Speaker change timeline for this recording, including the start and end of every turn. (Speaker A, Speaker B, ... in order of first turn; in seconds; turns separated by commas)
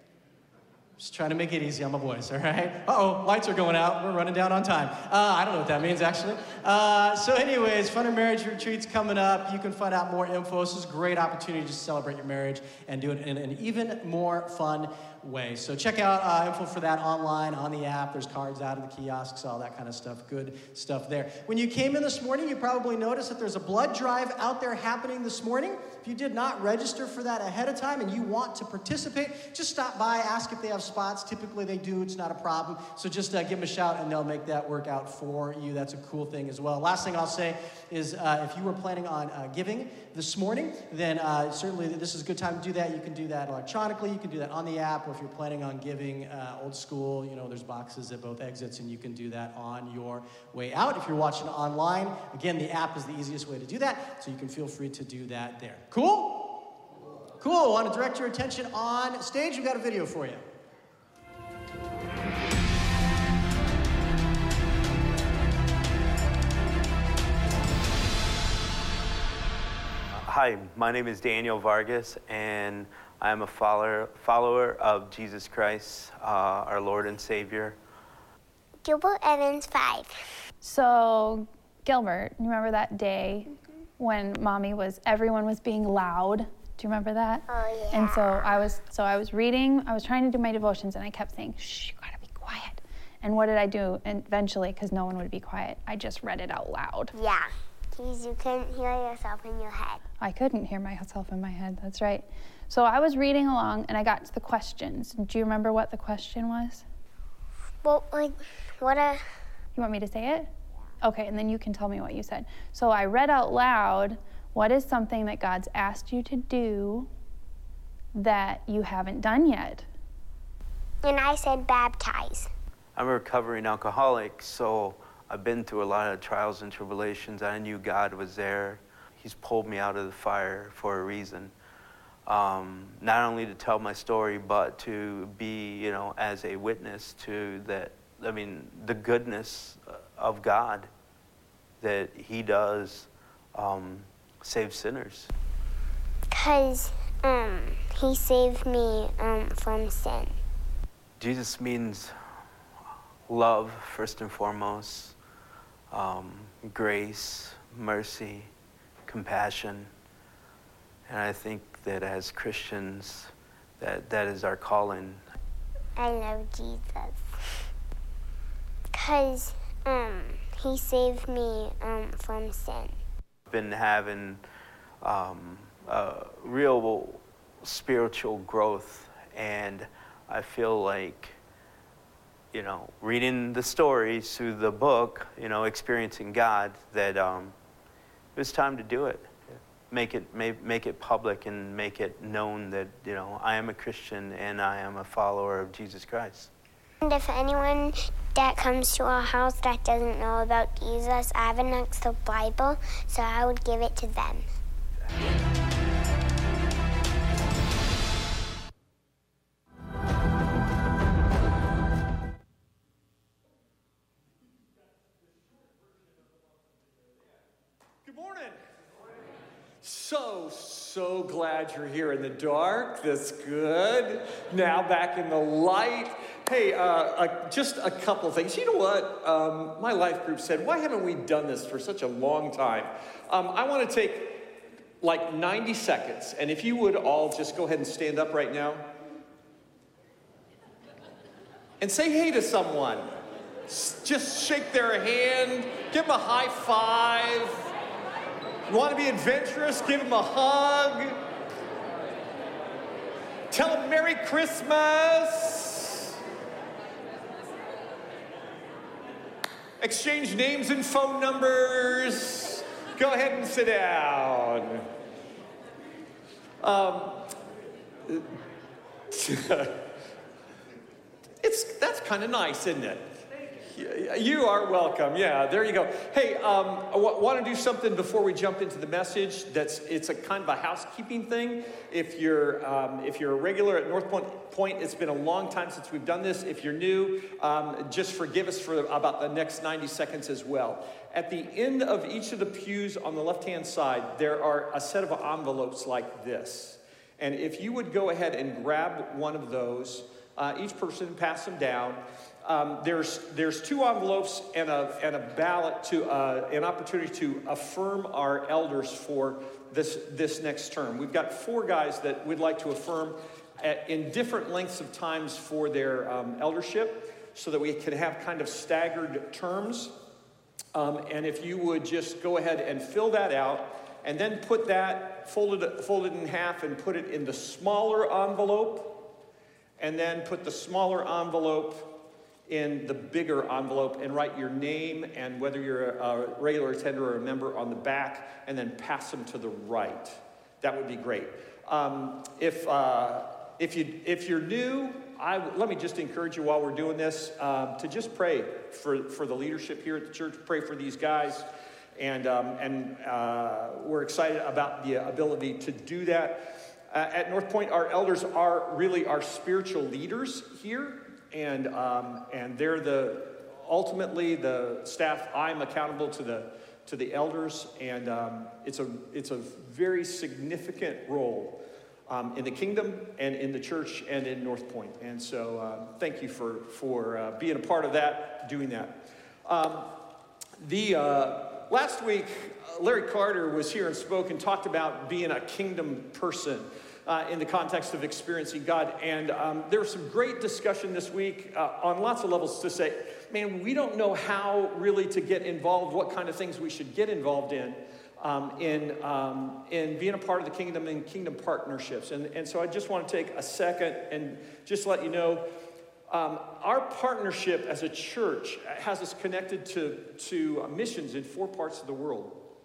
Speaker A: 1.0-56.8, Speaker A: 57.4-60.4, Speaker B: 70.1-77.8, Speaker C: 78.8-80.2, Speaker D: 80.6-97.1, Speaker C: 87.5-88.2, Speaker C: 97.1-100.0, Speaker D: 100.2-106.8, Speaker C: 107.8-109.2, Speaker D: 109.8-110.5, Speaker D: 111.0-117.1, Speaker D: 118.1-119.9, Speaker C: 121.0-122.5, Speaker B: 123.0-131.5, Speaker B: 132.3-140.9, Speaker B: 141.8-145.3, Speaker C: 146.3-150.3, Speaker B: 151.2-152.2, Speaker B: 153.3-155.2, Speaker B: 155.9-158.5, Speaker B: 159.1-159.9, Speaker B: 161.1-165.2, Speaker C: 166.0-167.2, Speaker C: 168.9-172.9, Speaker B: 173.5-174.4, Speaker B: 175.0-181.4, Speaker B: 182.5-187.6, Speaker B: 188.3-196.5, Speaker C: 197.0-204.5, Speaker E: 218.0-218.6, Speaker E: 219.8-238.9, Speaker E: 241.8-243.1, Speaker E: 243.7-247.7, Speaker E: 248.7-251.2, Speaker E: 253.5-256.1, Speaker E: 259.8-264.9, Speaker E: 266.6-267.4, Speaker E: 269.1-269.9, Speaker E: 271.4-319.9, Speaker E: 320.7-329.1, Speaker E: 329.8-380.0, Speaker E: 380.6-405.5, Speaker E: 406.1-412.4